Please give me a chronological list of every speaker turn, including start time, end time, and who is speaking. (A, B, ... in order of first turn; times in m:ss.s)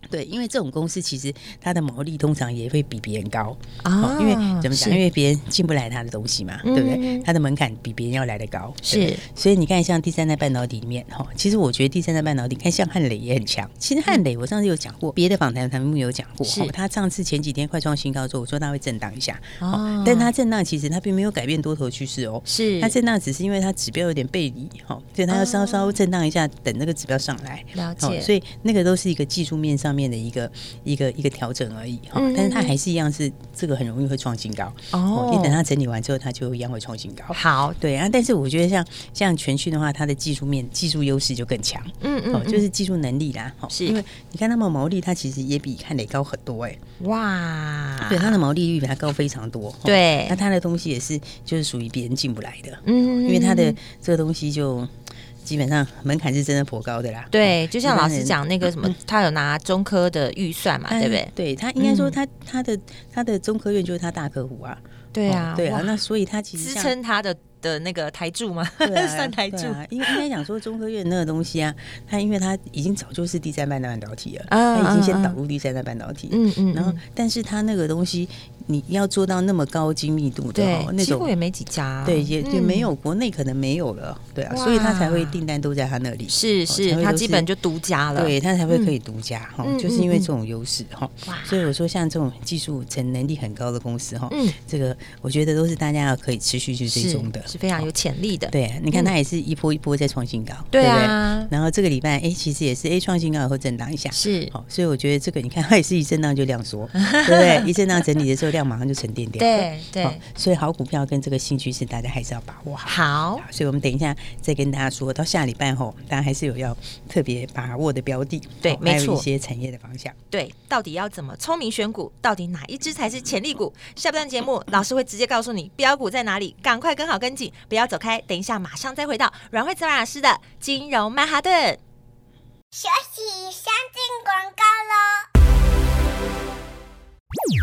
0:00.1-0:46.8 A
0:03.8-0:05.0 B
0:06.6-0:07.3 B
0:08.8-0:09.2 B
0:16.4-0:16.7 B
0:19.6-0:20.3 B
0:22.5-0:22.9 B
0:25.3-0:26.0 B
0:27.8-0:28.3 B
0:32.1-0:32.7 B
0:34.9-0:35.6 B
0:37.3-0:37.8 B
0:42.0-0:42.6 B
0:43.7-0:44.0 B
0:47.0-0:48.4 B
0:48.0-0:58.9 A
0:49.8-0:50.4 B
0:52.8-0:53.8 B
0:57.3-1:02.2 B
1:00.9-1:06.9 A
1:05.1-1:06.0 B
1:06.6-1:10.2 B
1:08.8-1:21.3 A
1:14.5-1:15.4 B
1:16.3-1:17.0 B
1:20.5-1:22.9 B
1:22.0-1:27.5 A
1:24.5-1:25.4 B
1:26.3-1:28.9 B
1:28.1-1:37.9 A
1:29.6-1:30.3 B
1:31.3-1:31.6 B
1:34.3-1:34.6 B
1:36.9-1:39.1 B
1:38.5-2:00.2 A
1:40.7-1:41.5 B
1:44.1-1:44.5 B
1:47.0-1:47.7 B
1:49.4-1:50.2 B
1:52.8-1:53.4 B
1:58.6-1:59.2 B
2:00.3-2:11.8 B
2:12.7-2:15.2 C